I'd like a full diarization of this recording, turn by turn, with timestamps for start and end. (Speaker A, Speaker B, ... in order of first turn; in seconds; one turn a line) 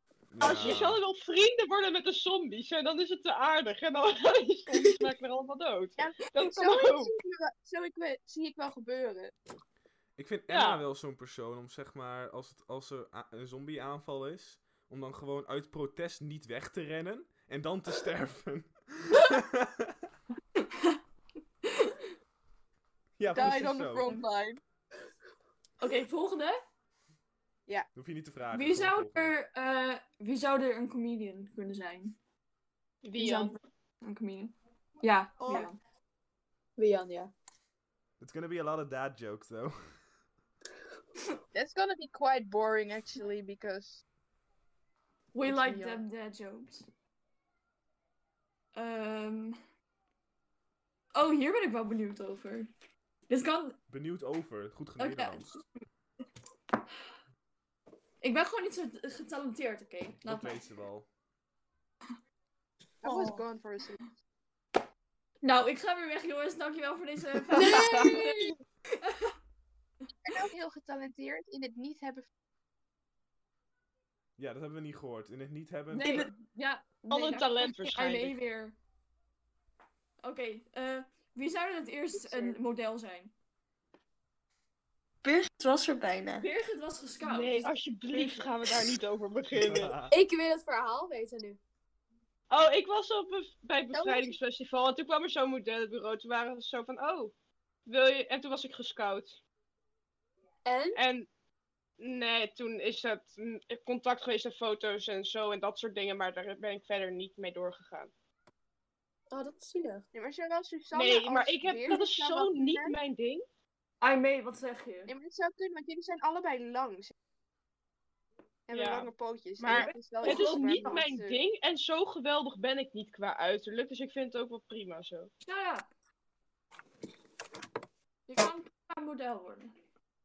Speaker A: 0.3-1.0
Speaker B: 0.4-7.1
Speaker C: 6.0-9.3
Speaker A: 10.2-20.1
Speaker B: 10.5-10.8
Speaker D: 20.6-21.0
Speaker D: 21.6-22.0
Speaker A: 23.2-24.2
Speaker C: 23.3-24.6
Speaker D: 25.8-26.6
Speaker A: 27.9-29.3
Speaker D: 28.5-32.2
Speaker B: 33.0-33.6
Speaker D: 33.2-35.8
Speaker E: 36.8-37.3
Speaker A: 38.2-39.8
Speaker C: 41.5-44.0
Speaker D: 45.3-46.9
Speaker C: 45.5-46.0
Speaker D: 48.8-49.6
Speaker D: 51.1-52.7
Speaker D: 53.3-53.8
Speaker A: 53.9-55.6
Speaker D: 55.0-55.8
Speaker D: 58.2-60.6
Speaker A: 60.3-61.1
Speaker C: 63.0-64.1
Speaker F: 63.0-63.5
Speaker D: 65.4-68.2
Speaker E: 67.5-68.5
Speaker A: 67.6-68.1
Speaker D: 69.0-69.3
Speaker C: 70.3-72.3
Speaker A: 74.4-76.3
Speaker D: 75.9-78.8
Speaker F: 76.0-76.3
Speaker B: 77.1-78.4
Speaker D: 80.2-83.3
Speaker C: 82.2-82.6
Speaker F: 85.2-86.5
Speaker D: 86.4-88.5
Speaker B: 87.2-90.0
Speaker A: 89.5-90.1
Speaker E: 90.1-91.6
Speaker B: 92.5-97.3
Speaker C: 93.9-94.3
Speaker B: 97.9-99.4
Speaker E: 100.7-101.0
Speaker B: 101.0-101.3
Speaker B: 102.0-108.1
Speaker E: 109.3-110.1
Speaker C: 110.1-113.0
Speaker B: 110.9-113.5
Speaker D: 114.0-115.1
Speaker C: 115.1-117.1
Speaker C: 118.7-121.4
Speaker B: 118.7-125.3
Speaker D: 119.7-121.0
Speaker D: 125.4-125.9
Speaker D: 128.3-129.7